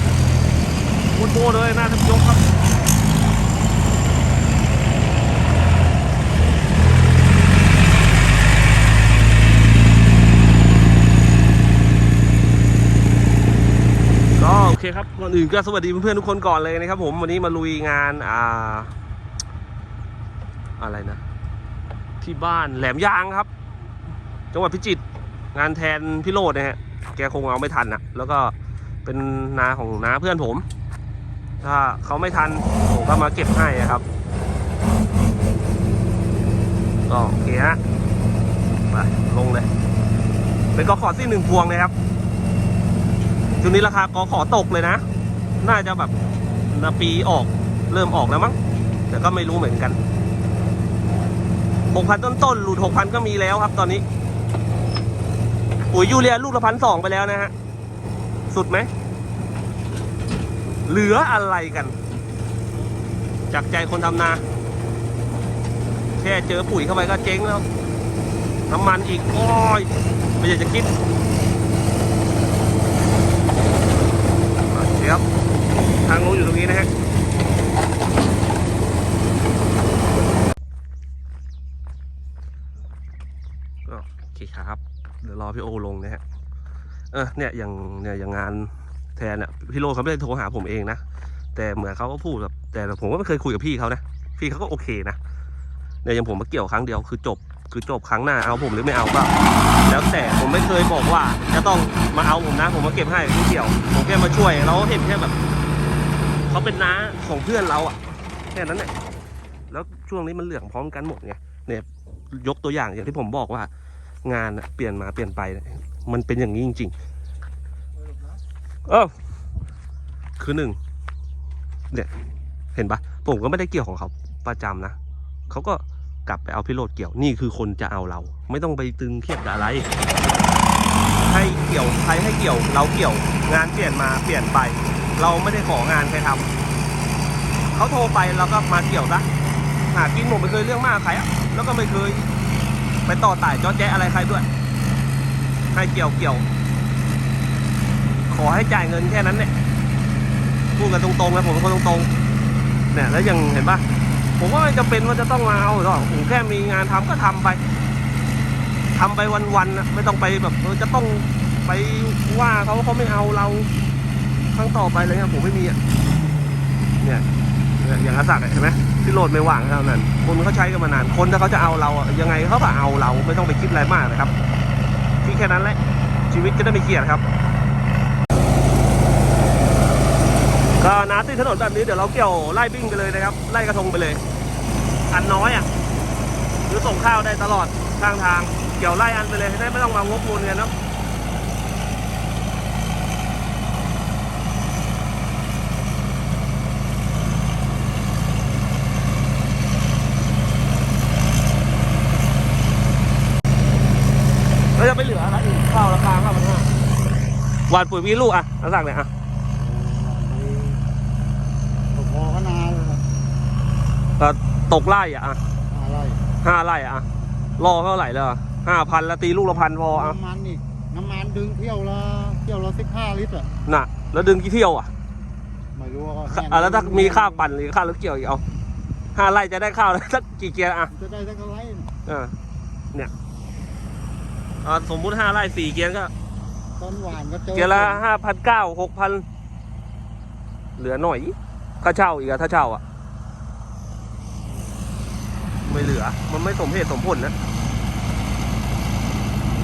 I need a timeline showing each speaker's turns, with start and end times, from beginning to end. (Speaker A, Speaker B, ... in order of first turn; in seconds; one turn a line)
Speaker A: 1.1-2.4
Speaker A: 14.4-18.9
Speaker A: 20.8-21.2
Speaker A: 22.2-23.5
Speaker A: 24.5-25.0
Speaker A: 25.5-28.5
Speaker A: 29.1-30.7
Speaker A: 31.6-34.0
Speaker A: 37.1-37.8
Speaker A: 38.9-39.7
Speaker A: 40.8-41.9
Speaker A: 43.6-45.0
Speaker A: 45.6-46.1
Speaker A: 46.7-48.6
Speaker A: 49.1-50.0
Speaker A: 51.9-54.0
Speaker A: 55.9-57.5
Speaker A: 58.5-58.9
Speaker A: 60.9-62.0
Speaker A: 63.5-64.4
Speaker A: 66.2-67.7
Speaker A: 68.7-70.9
Speaker A: 74.7-75.2
Speaker A: 76.0-76.9
Speaker A: 83.9-86.2
Speaker A: 87.1-91.0
Speaker A: 91.5-95.2
Speaker A: 96.0-99.3
Speaker A: 99.9-105.3
Speaker A: 106.5-108.0
Speaker A: 108.5-108.9
Speaker A: 109.7-113.7
Speaker A: 114.2-116.9
Speaker A: 118.9-119.1
Speaker A: 120.4-120.8
Speaker A: 122.8-125.0
Speaker A: 125.5-129.9
Speaker A: 131.2-136.5
Speaker A: 137.7-139.3
Speaker A: 139.9-142.3
Speaker A: 143.1-144.5
Speaker A: 145.7-146.5
Speaker A: 148.3-149.5
Speaker A: 150.8-152.1
Speaker A: 152.9-153.8
Speaker A: 154.4-157.6
Speaker A: 158.9-163.7
Speaker A: 164.5-165.8
Speaker A: 167.8-174.3
Speaker A: 175.2-175.8
Speaker A: 176.3-177.2
Speaker A: 180.8-184.2
Speaker A: 185.1-185.7
Speaker A: 186.7-190.7
Speaker A: 204.8-206.7
Speaker A: 207.7-209.1
Speaker B: 209.6-210.8
Speaker B: 211.9-213.1
Speaker A: 214.2-215.4
Speaker B: 215.7-216.2
Speaker A: 216.4-217.1
Speaker A: 217.6-220.2
Speaker B: 220.0-223.5
Speaker A: 223.7-224.9
Speaker B: 225.8-227.3
Speaker A: 226.3-228.4
Speaker A: 229.2-230.9
Speaker B: 230.9-231.9
Speaker A: 232.1-232.4
Speaker A: 234.6-236.1
Speaker B: 236.8-238.0
Speaker A: 237.5-239.2
Speaker A: 240.8-242.8
Speaker A: 245.7-247.3